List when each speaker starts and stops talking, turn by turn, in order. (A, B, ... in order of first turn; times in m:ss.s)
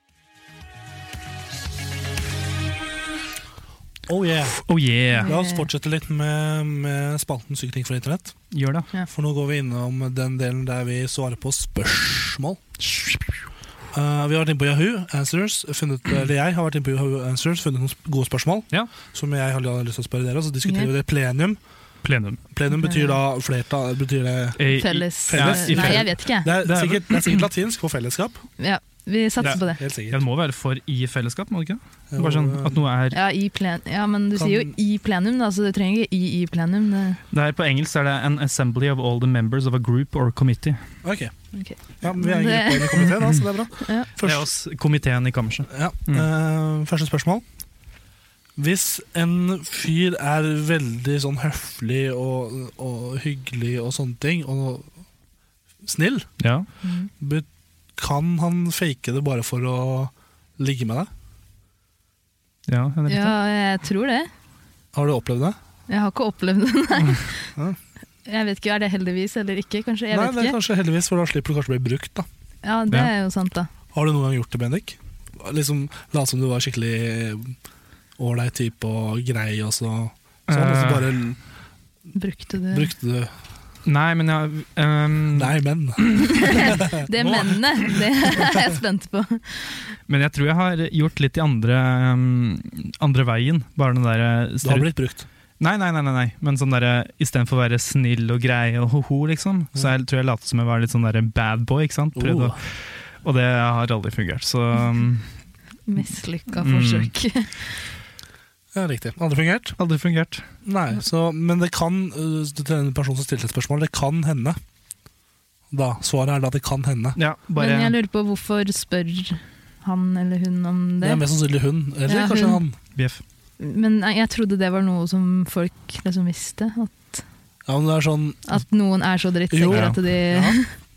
0:04.1-0:04.6 A
0:04.6-0:05.3 B
0:05.2-0:08.5 A
0:05.2-0:05.6 C
0:08.5-0:08.9 B
0:09.1-0:12.6 A
0:12.8-0:13.4 B
0:13.9-0:21.6 A
0:20.6-0:20.9 C
0:22.0-0:22.4 B
0:22.5-0:28.4 A
0:22.7-0:23.1 C
0:24.6-0:27.4 B
0:24.7-0:26.5 C
0:28.6-0:29.8 C
0:29.4-0:30.2 A
0:29.4-0:33.2 B
0:32.1-0:32.8 A
0:33.1-0:37.2 C
0:34.4-0:34.7 A
0:37.3-0:40.8 B
0:41.0-0:44.5 A
0:41.5-0:43.1 C
0:43.8-0:44.1 C
0:44.2-0:46.3 B
0:45.7-0:47.4 A
0:48.6-0:54.9 A
0:55.8-0:56.4 A
0:56.4-0:56.7 B
0:56.8-0:57.1 C
0:57.2-1:01.1 A
1:02.7-1:03.4 B
1:03.1-1:04.3 C
1:04.9-1:05.6 A
1:05.9-1:07.5 C
1:08.2-1:10.6 C
1:10.1-1:12.3 A
1:12.6-1:13.7 C
1:13.9-1:17.6 A
1:18.2-1:21.4 A
1:20.5-1:21.0 B
1:22.1-1:22.9 C
1:22.7-1:23.3 A
1:23.8-1:26.5 B
1:25.3-1:27.3 A
1:26.3-1:29.9 C
1:30.1-1:34.9 B
1:34.6-1:35.3 A
1:35.6-1:45.3 B
1:42.2-1:42.6 A
1:45.9-1:47.8 C
1:46.6-1:47.1 B
1:48.7-1:49.8 A
1:49.8-1:50.4 B
1:50.6-1:54.6 A
1:55.7-1:57.2 A
1:57.2-1:57.9 B
1:57.6-2:01.2 C
2:01.0-2:02.8 A
2:02.0-2:02.6 C
2:03.0-2:03.2 B
2:03.6-2:07.2 C
2:07.6-2:08.6 A
2:08.4-2:10.7 C
2:09.5-2:10.6 A
2:09.7-2:10.0 B